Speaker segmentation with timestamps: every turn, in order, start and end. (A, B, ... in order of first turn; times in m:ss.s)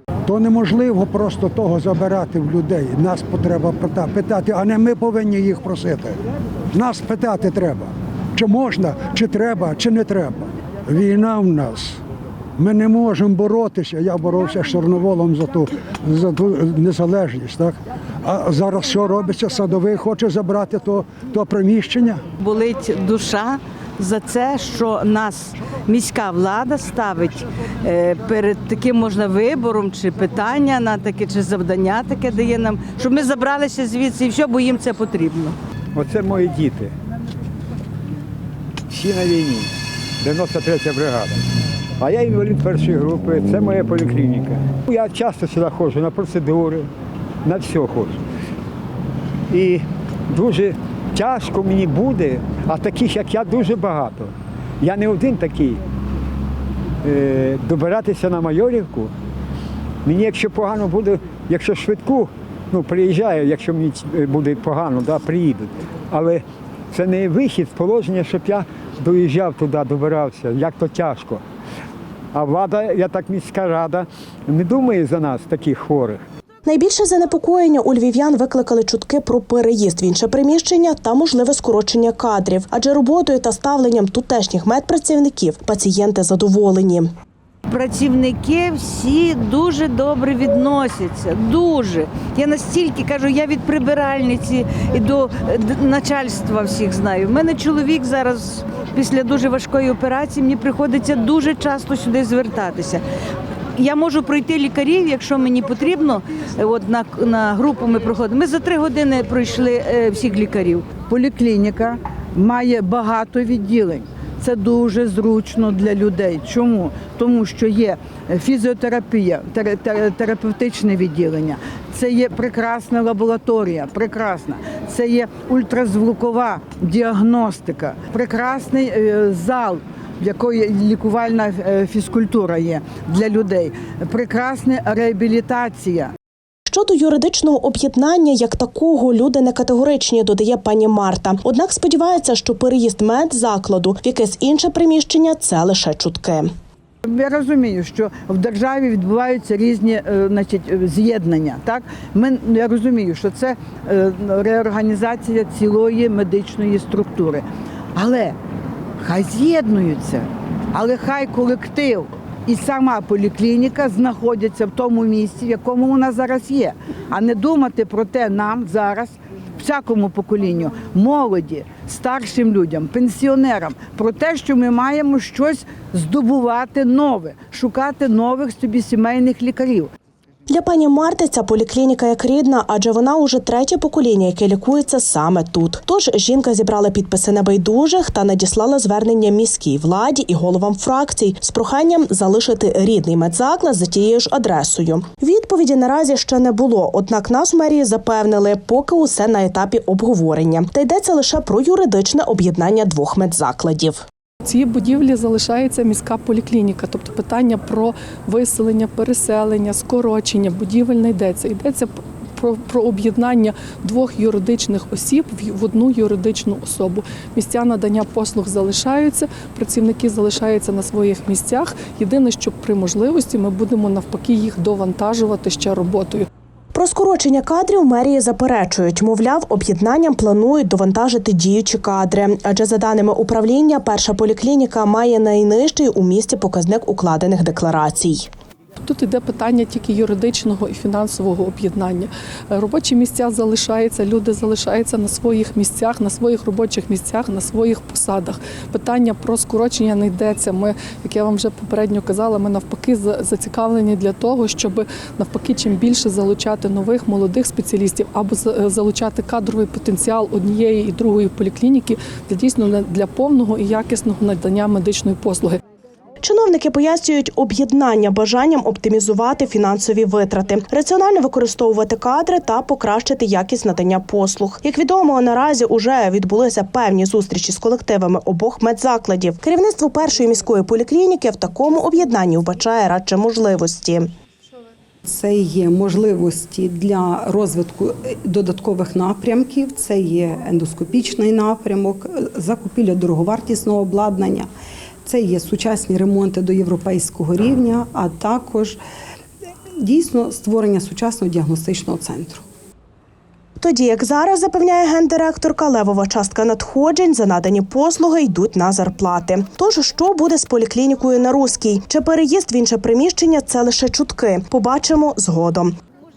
0:00.2-0:06.2 A
0:06.7-0:12.0 A
0:12.6-0:22.2 A
0:22.4-0:35.5 B
0:35.9-0:36.9 C
0:38.9-0:39.7 C
0:40.2-0:41.4 C
0:42.0-0:46.9 C
0:47.4-0:48.2 C
0:49.5-0:55.8 C
0:57.0-0:59.1 C
1:00.0-1:11.4 C
1:12.3-1:16.2 C
1:16.6-1:27.1 D
1:27.7-1:43.0 B
1:43.8-1:50.9 B
1:50.9-2:16.1 E
2:16.7-2:26.5 D
2:27.0-2:38.4 E
2:39.0-2:59.9 E
3:00.5-3:24.0 D
3:24.5-3:46.2 F
3:46.7-3:58.3 D
3:58.9-4:25.6 F
4:26.2-4:44.1 D
4:45.0-4:54.5 G
4:55.0-4:58.8 G
4:59.8-5:02.4 G
5:03.6-5:15.7 D